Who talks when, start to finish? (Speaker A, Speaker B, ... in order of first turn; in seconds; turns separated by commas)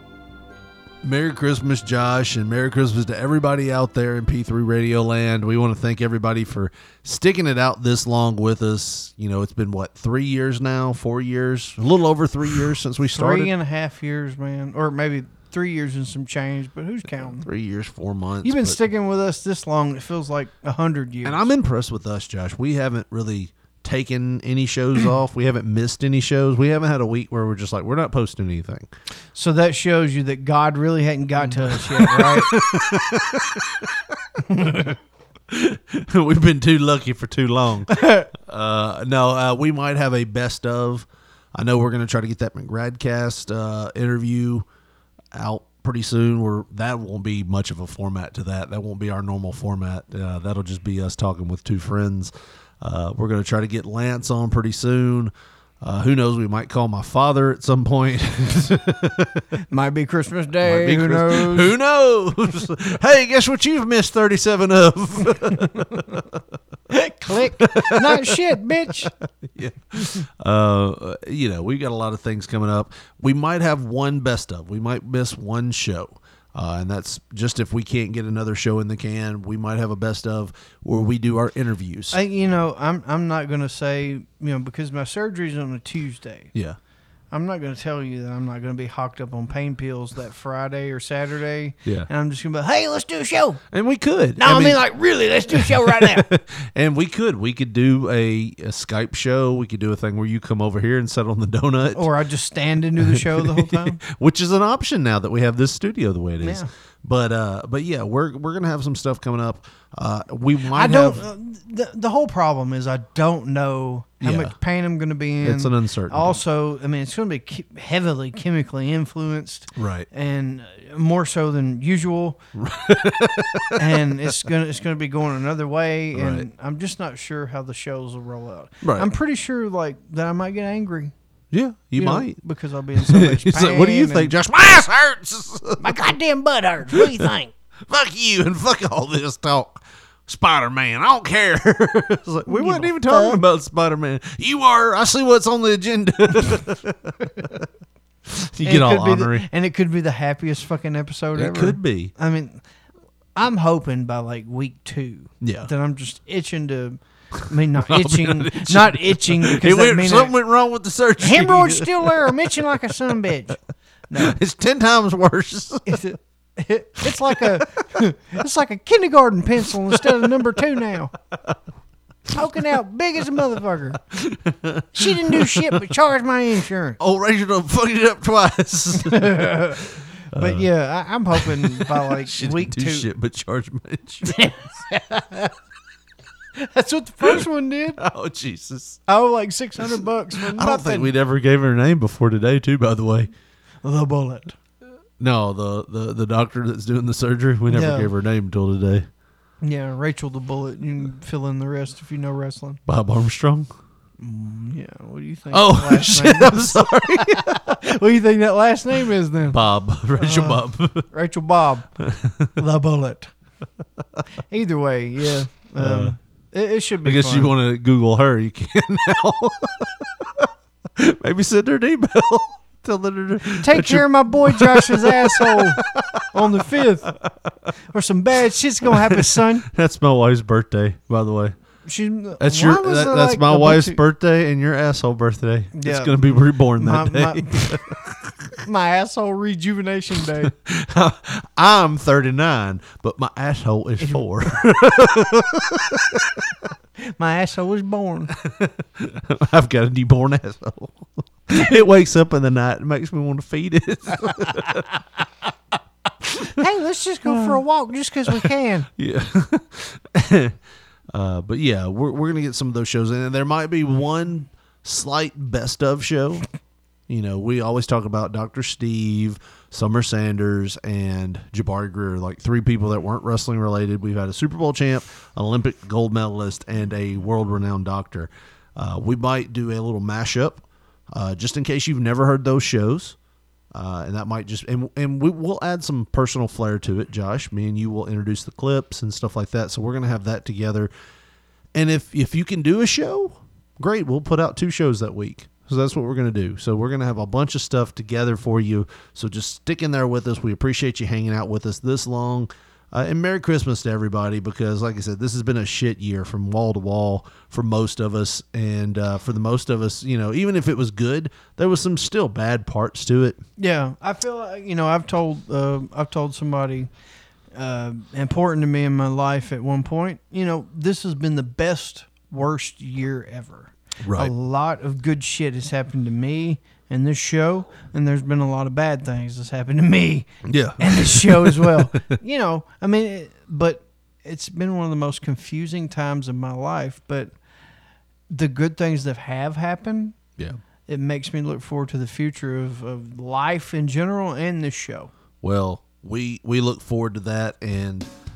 Speaker A: 1.0-13.5, Speaker B: 13.1-17.5, Speaker A: 17.2-18.8, Speaker B: 18.4-21.5, Speaker A: 21.2-28.9, Speaker B: 29.3-32.5, Speaker A: 31.4-33.9, Speaker B: 34.5-34.9, Speaker A: 35.5-44.6, Speaker B: 37.9-38.3, Speaker A: 45.3-59.4, Speaker B: 59.7-61.7, Speaker A: 60.6-66.4, Speaker B: 66.9-69.1, Speaker A: 67.6-68.4, Speaker A: 69.4-82.2, Speaker B: 82.1-86.5, Speaker B: 87.3-93.6, Speaker A: 93.7-94.8, Speaker B: 94.4-96.3, Speaker A: 95.5-102.1, Speaker B: 101.9-104.0, Speaker A: 103.0-111.2, Speaker B: 106.4-106.7, Speaker B: 110.7-122.4, Speaker A: 114.2-114.5, Speaker A: 115.4-116.4, Speaker A: 119.7-120.1, Speaker A: 122.5-124.3, Speaker B: 123.8-131.1, Speaker A: 126.1-126.5, Speaker A: 128.8-129.1, Speaker A: 131.5-132.4, Speaker B: 131.9-134.3, Speaker A: 132.9-136.0, Speaker B: 135.8-137.5, Speaker A: 136.9-137.2, Speaker A: 137.9-147.5, Speaker B: 142.5-143.4, Speaker A: 148.3-149.5, Speaker B: 148.6-152.6, Speaker A: 151.3-152.1, Speaker B: 153.3-160.3, Speaker A: 155.4-155.7, Speaker A: 157.7-162.6, Speaker B: 161.2-164.4, Speaker A: 164.1-166.0, Speaker B: 165.8-171.1, Speaker A: 167.0-167.6, Speaker A: 169.9-170.5, Speaker B: 172.3-174.0, Speaker A: 174.1-175.8, Speaker B: 174.9-177.0, Speaker A: 177.0-180.7, Speaker B: 179.0-183.1, Speaker A: 181.3-184.4, Speaker B: 184.2-185.5, Speaker B: 186.6-188.0, Speaker A: 188.0-189.0, Speaker B: 189.1-191.1, Speaker A: 189.8-193.3, Speaker B: 193.8-194.6, Speaker A: 195.2-199.1, Speaker B: 197.7-198.1, Speaker B: 199.6-202.8, Speaker A: 202.9-203.7, Speaker B: 204.2-209.6, Speaker A: 205.5-207.8, Speaker A: 209.5-211.1, Speaker B: 210.2-211.9, Speaker A: 212.0-212.5, Speaker B: 212.6-213.3, Speaker B: 214.5-217.5, Speaker A: 215.8-216.1, Speaker A: 217.0-226.6, Speaker B: 223.6-225.8, Speaker B: 226.3-227.1, Speaker B: 227.9-229.7, Speaker A: 228.8-231.5, Speaker B: 231.8-234.0, Speaker A: 232.4-238.1, Speaker B: 235.7-237.8, Speaker B: 238.6-240.5, Speaker A: 240.4-246.4, Speaker B: 247.0-248.3, Speaker A: 248.4-255.0, Speaker A: 256.2-256.5, Speaker B: 256.6-258.9, Speaker A: 257.2-257.6, Speaker A: 259.0-260.6, Speaker A: 261.1-266.4, Speaker A: 267.1-283.1, Speaker A: 283.7-290.9, Speaker A: 291.7-313.4, Speaker B: 313.6-316.9, Speaker B: 317.6-337.3, Speaker A: 324.0-324.3, Speaker A: 330.4-332.0, Speaker B: 338.3-340.1, Speaker B: 340.9-345.1, Speaker A: 345.4-348.1